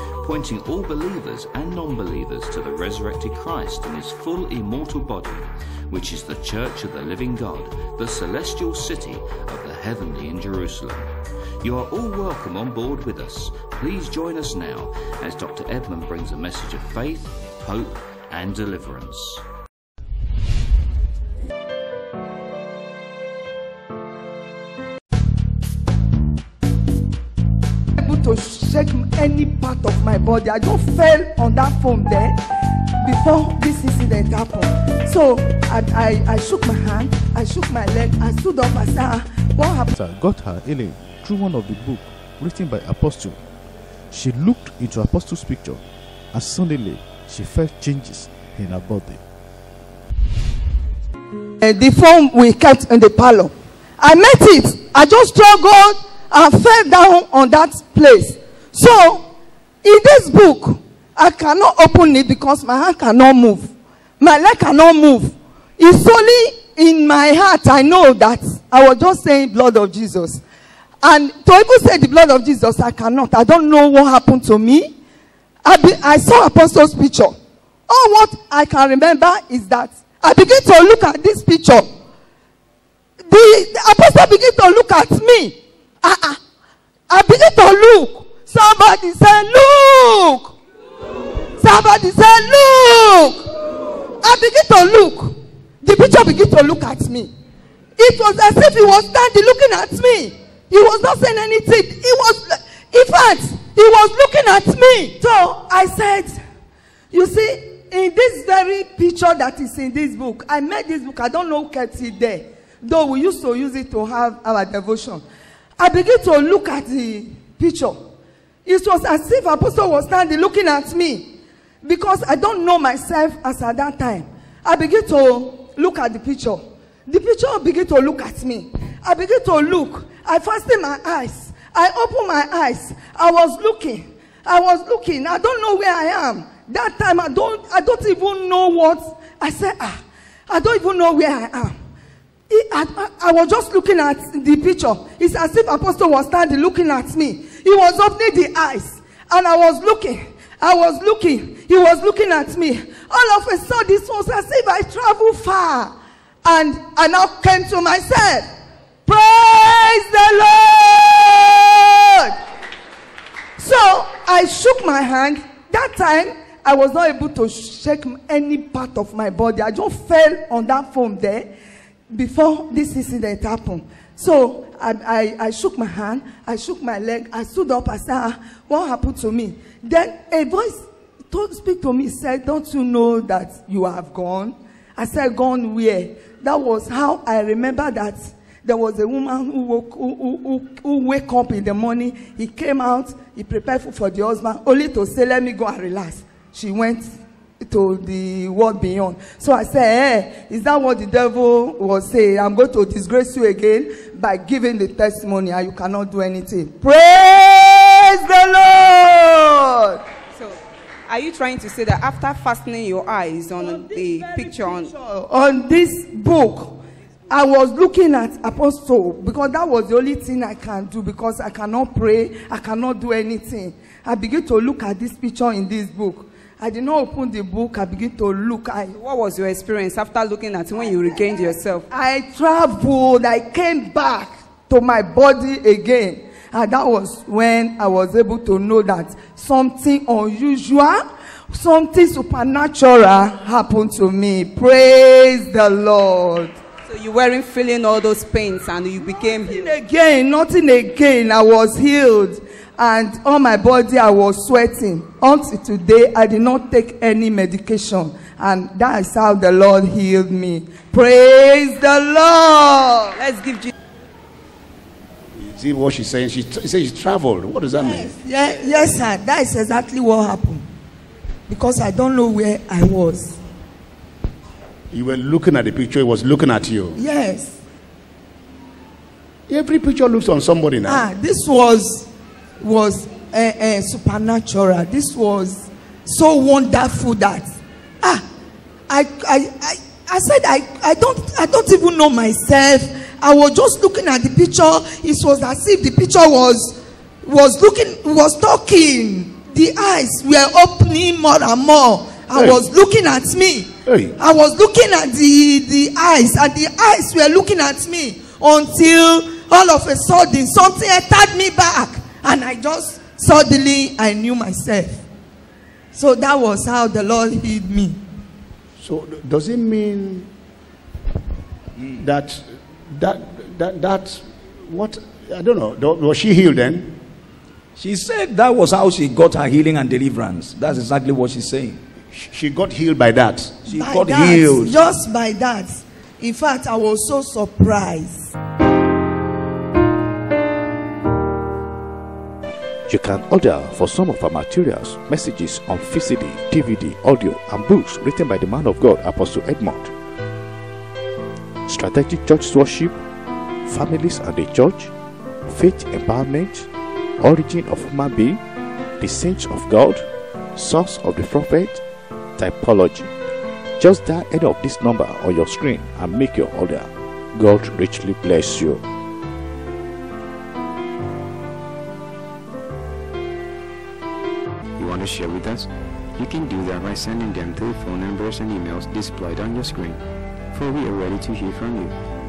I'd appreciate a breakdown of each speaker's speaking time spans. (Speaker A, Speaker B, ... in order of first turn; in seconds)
Speaker A: 0.2-11.1, 11.6-19.4
Speaker B: 28.0-32.4, 33.0-39.9, 51.6-59.3, 59.8-70.4, 71.0-75.0, 75.6-77.3, 77.9-81.9, 83.2-86.4, 87.1-90.5, 91.6-93.5, 94.2-97.3, 98.0-106.4, 107.1-115.2, 115.8-118.0, 118.7-141.7, 142.5-155.9, 156.4-158.5, 159.1-162.3, 163.6-171.5, 172.1-197.1, 197.6-210.0, 213.6-216.8, 217.3-229.0, 231.9-246.6, 249.0-263.2, 267.8-270.6, 271.5-273.4, 277.0-277.6, 280.9-282.1, 282.6-287.5, 288.9-315.0, 315.9-318.0, 333.7-338.4
Speaker C: 40.0-43.4, 44.1-49.2, 342.9-349.9, 351.7-353.0, 353.6-354.9, 355.5-358.4, 359.0-361.8, 362.4-363.1, 363.8-368.8
Speaker D: 210.3-214.9, 229.0-231.9, 246.9-249.7, 263.2-263.7
Speaker E: 265.4-268.1, 274.9-277.0, 279.5-281.1, 303.9-304.1, 318.8-320.3, 322.0-327.0, 332.1-333.7
Speaker F: 327.8-331.8, 333.7-334.8
Speaker G: 374.8-382.0